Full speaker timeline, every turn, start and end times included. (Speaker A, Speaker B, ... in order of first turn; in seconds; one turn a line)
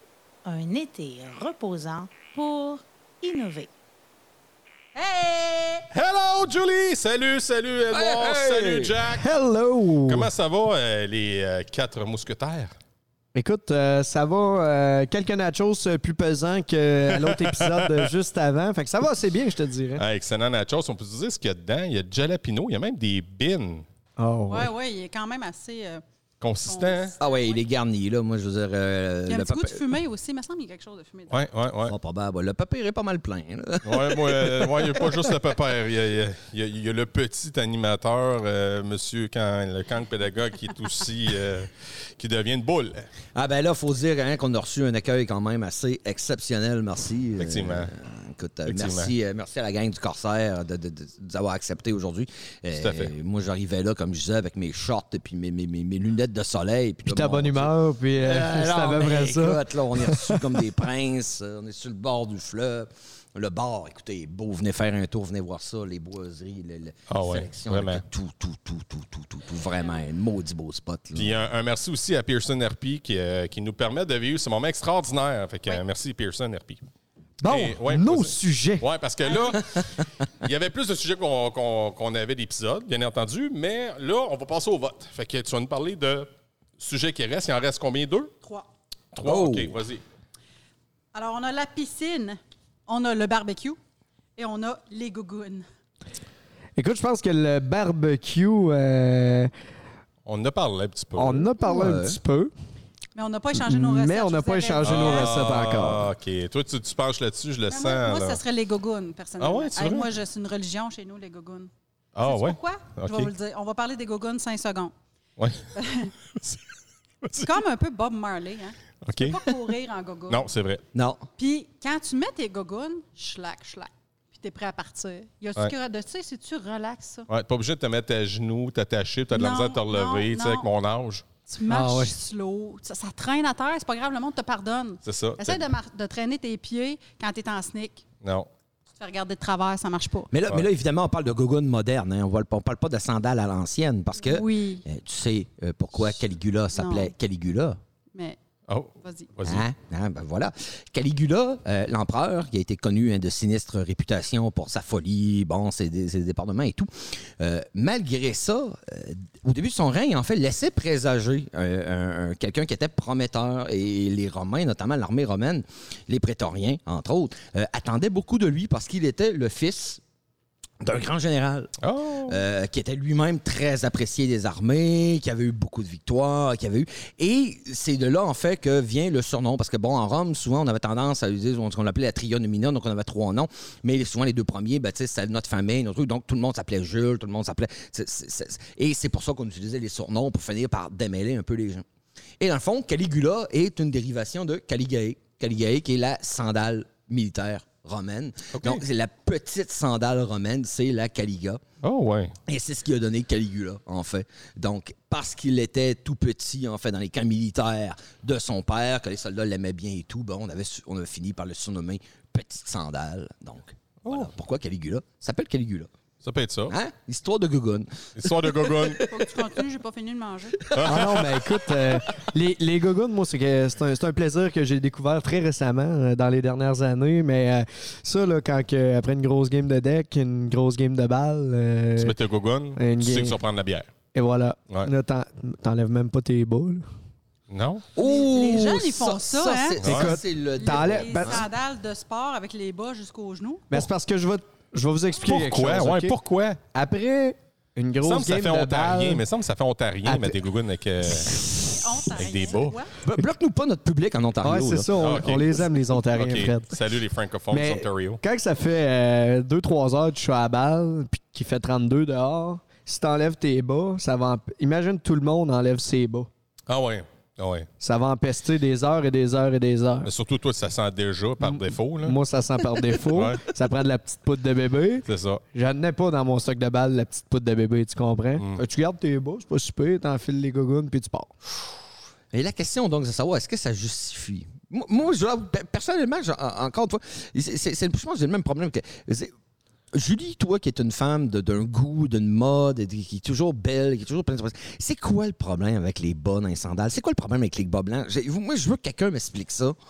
Speaker A: 0.5-3.7
Speaker B: 4.9-5.9
Speaker C: 5.9-9.3
Speaker D: 7.9-9.0
Speaker E: 9.1-10.3
Speaker C: 10.1-12.8
Speaker E: 13.3-20.0
Speaker C: 17.1-18.1
Speaker C: 20.0-23.9
Speaker E: 24.2-24.7
Speaker B: 24.5-26.0
Speaker C: 26.4-27.1
Speaker B: 26.6-27.6
Speaker D: 27.2-29.9
Speaker B: 29.3-31.4
Speaker C: 31.3-31.9
Speaker D: 31.8-35.4
Speaker C: 33.8-43.1
Speaker D: 43.4-71.4
Speaker C: 47.4-47.9
Speaker C: 48.7-49.1
Speaker C: 52.7-53.1
Speaker E: 57.1-60.6
Speaker C: 67.1-68.0
Speaker C: 71.2-76.8
Speaker E: 77.4-78.9
Speaker C: 77.5-79.9
Speaker B: 79.2-79.6
Speaker C: 80.4-88.3
Speaker B: 88.4-88.7
Speaker C: 89.1-90.0
Speaker D: 89.2-89.8
Speaker B: 91.1-93.8
Speaker B: 94.4-95.7
Speaker E: 96.8-99.5
Speaker C: 100.3-101.5
Speaker E: 101.2-102.5
Speaker D: 101.6-102.2
Speaker B: 103.2-105.3
Speaker E: 103.6-106.1
Speaker C: 104.8-108.4
Speaker B: 107.7-111.7
Speaker C: 109.4-110.1
Speaker C: 112.2-113.3
Speaker B: 112.3-114.9
Speaker C: 115.4-115.7
Speaker B: 115.8-116.1
Speaker C: 116.4-116.6
Speaker C: 117.2-117.6
Speaker B: 117.4-120.5
Speaker C: 119.0-119.6
Speaker C: 120.3-120.8
Speaker D: 120.9-121.3
Speaker B: 121.4-127.3
Speaker C: 127.3-131.2
Speaker B: 129.3-130.7
Speaker B: 131.5-138.0
Speaker E: 131.7-132.2
Speaker C: 135.1-135.6
Speaker C: 138.2-138.5
Speaker B: 139.0-140.3
Speaker D: 140.3-147.8
Speaker B: 144.2-144.8
Speaker B: 146.7-147.1
Speaker C: 148.7-149.7
Speaker B: 149.0-149.3
Speaker D: 149.4-170.0
Speaker D: 170.8-191.8
Speaker C: 171.8-172.4
Speaker D: 192.4-201.6
Speaker C: 198.5-198.8
Speaker C: 201.8-202.3
Speaker D: 202.5-215.9
Speaker C: 216.2-216.8
Speaker D: 216.7-219.4
Speaker C: 218.2-219.1
Speaker B: 219.1-220.6
Speaker D: 220.7-221.5
Speaker C: 220.7-221.2
Speaker E: 220.8-232.2
Speaker C: 232.0-233.9
Speaker E: 232.8-233.4
Speaker E: 234.1-236.8
Speaker C: 237.5-237.9
Speaker D: 237.9-241.5
Speaker B: 238.0-243.7
Speaker C: 239.8-240.1
Speaker E: 239.8-241.4
Speaker E: 243.7-246.2
Speaker C: 245.2-246.6
Speaker E: 246.7-249.2
Speaker C: 248.0-251.6
Speaker E: 250.1-250.4
Speaker E: 251.1-251.8
Speaker B: 251.6-252.9
Speaker C: 252.2-252.8
Speaker D: 253.0-255.5
Speaker E: 254.4-256.7
Speaker C: 255.0-258.2
Speaker E: 257.5-266.3
Speaker C: 266.7-267.7
Speaker E: 267.8-270.1
Speaker C: 270.0-272.2
Speaker E: 271.4-281.3
Speaker C: 273.1-273.5
Speaker C: 275.1-275.4
Speaker C: 278.4-278.6
Speaker D: 282.3-289.3
Speaker D: 289.9-299.8